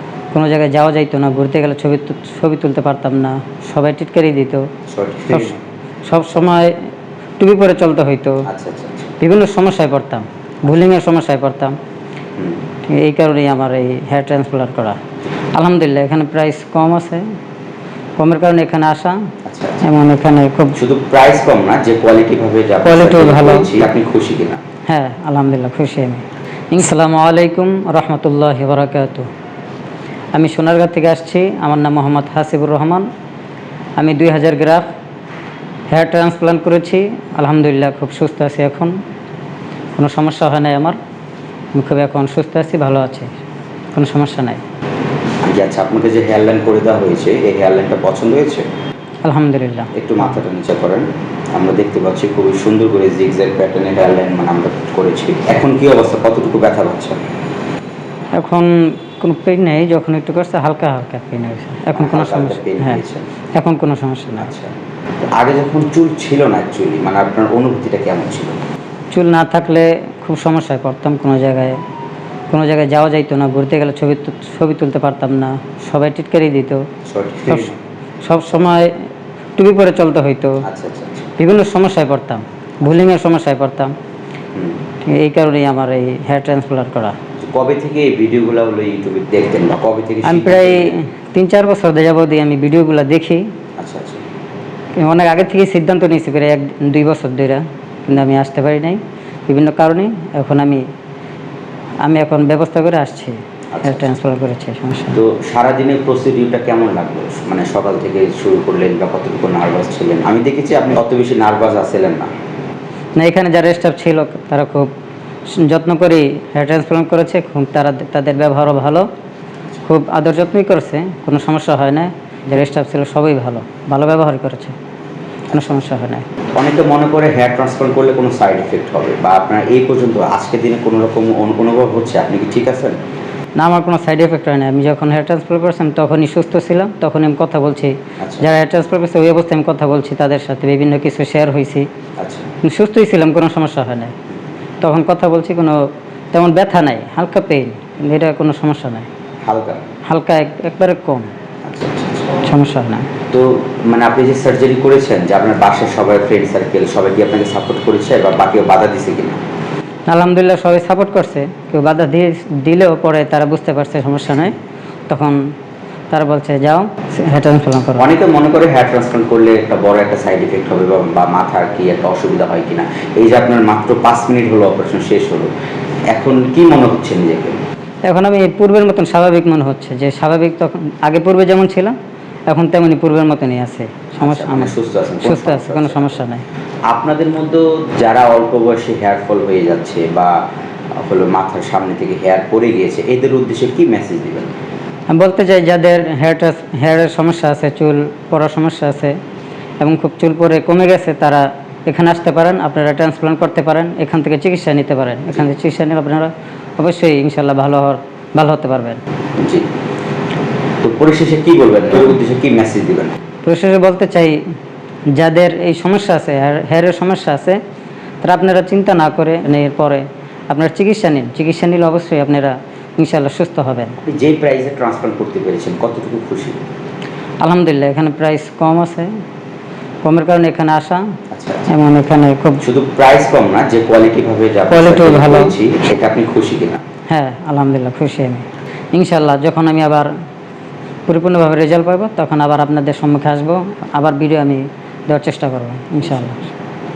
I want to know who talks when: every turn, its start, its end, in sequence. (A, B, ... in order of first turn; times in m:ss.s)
0:00.3-0:04.7 A
0:04.9-0:05.6 B
0:05.3-0:05.6 A
0:06.1-0:08.5 A
0:08.5-0:09.1 B
0:09.2-0:11.8 A
0:12.4-0:12.6 B
0:12.8-0:15.0 A
0:15.5-0:17.3 A
0:18.2-0:20.8 A
0:19.4-0:19.9 B
0:20.8-0:24.6 B
0:22.8-0:23.7 A
0:24.9-0:29.3 A
0:30.3-0:33.1 A
0:34.0-0:34.9 A
0:35.9-0:39.0 A
0:40.0-0:41.0 A
0:41.8-0:43.4 A
0:43.9-0:44.6 A
0:45.4-0:48.7 B
0:49.2-0:49.9 A
0:49.9-0:57.2 B
0:58.4-1:03.0 A
1:02.0-1:03.3 B
1:03.5-1:04.5 A
1:04.4-1:08.6 B
1:09.1-1:11.8 A
1:12.5-1:16.9 A
1:17.1-1:17.8 B
1:17.5-1:19.0 A
1:19.6-1:20.6 A
1:20.6-1:21.3 B
1:21.4-1:24.0 A
1:24.6-1:24.8 B
1:25.0-1:27.2 A
1:27.4-1:31.0 B
1:30.2-1:33.6 A
1:33.8-1:34.2 B
1:35.0-1:40.8 A
1:42.0-1:45.2 A
1:43.7-1:44.1 B
1:45.1-1:52.3 B
1:53.2-1:54.9 A
1:55.5-1:59.1 A
1:59.8-2:04.8 A
2:05.5-2:06.3 A
2:05.5-2:05.8 B
2:06.6-2:13.0 B
2:13.6-2:21.9 A
2:18.2-2:18.5 B
2:22.2-2:22.5 B
2:22.6-2:24.2 A
2:24.8-2:29.1 A
2:29.4-2:29.8 B
2:30.0-2:31.3 A
2:31.6-2:32.5 B
2:32.4-2:33.1 A
2:33.3-2:39.4 B
2:40.1-2:44.6 A
2:45.1-2:45.4 A
2:46.1-2:48.1 A
2:48.0-2:55.5 B
2:56.1-2:57.6 B
2:58.1-3:02.0 A
3:02.5-3:06.4 A
3:04.2-3:06.2 B
3:06.9-3:10.4 B
3:11.0-3:14.5 B
3:15.1-3:19.2 A
3:19.8-3:29.0 A
3:29.4-3:29.7 B
3:30.8-3:33.2 B
3:33.4-3:34.4 A
3:35.1-3:37.6 A
3:38.2-3:44.0 A
3:44.0-3:46.6 B
3:47.4-3:49.1 A
3:50.0-3:51.2 A
3:51.3-3:51.7 B
3:51.7-3:52.6 A
3:52.6-3:56.8 B
3:54.7-3:55.6 A
3:57.1-4:00.1 A
4:01.1-4:06.5 A